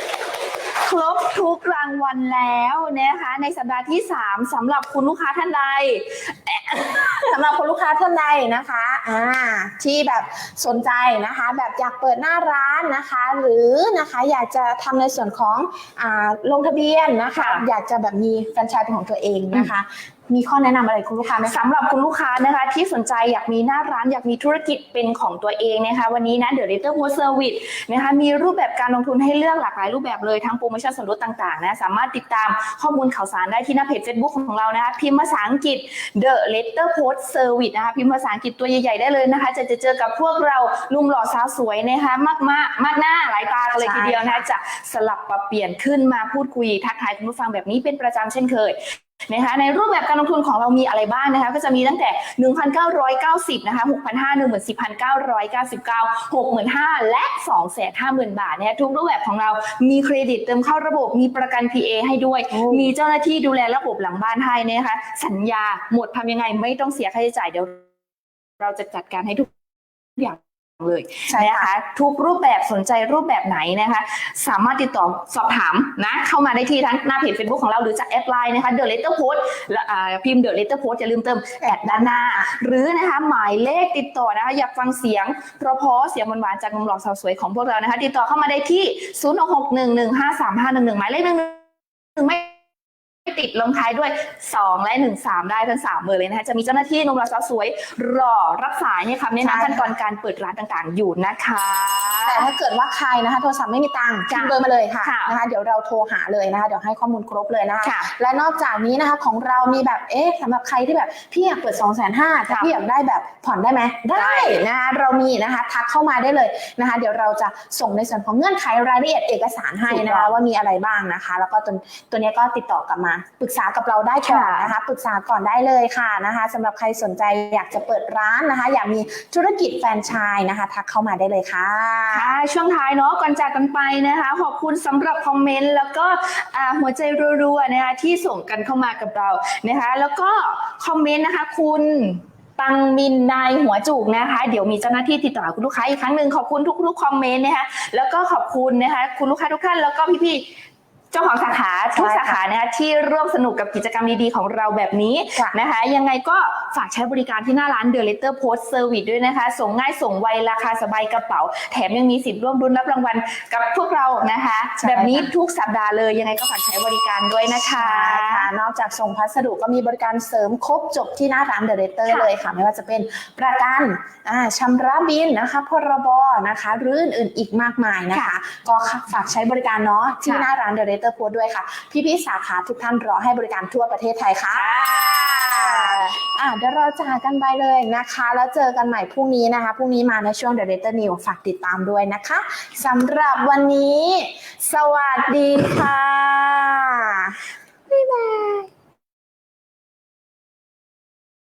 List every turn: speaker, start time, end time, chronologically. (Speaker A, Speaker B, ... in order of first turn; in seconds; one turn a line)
Speaker A: 0.8-7.3
Speaker B: 7.2-21.7
Speaker A: 17.3-17.6
Speaker A: 21.4-67.9
Speaker B: 43.8-44.5
Speaker B: 62.5-62.9
Speaker A: 68.6-69.5
Speaker A: 70.2-92.6
Speaker B: 71.3-71.7
Speaker B: 81.7-82.5
Speaker A: 93.3-102.5
Speaker B: 99.4-99.9
Speaker B: 102.3-132.4
Speaker A: 104.3-105.4
Speaker A: 107.8-108.1
Speaker A: 114.2-114.6
Speaker A: 119.9-120.3
Speaker A: 124.3-124.7
Speaker A: 132.1-150.5
Speaker A: 151.1-168.5
Speaker B: 151.9-152.4
Speaker B: 164.8-165.3
Speaker B: 167.7-198.7
Speaker A: 180.2-180.5
Speaker A: 184.5-186.2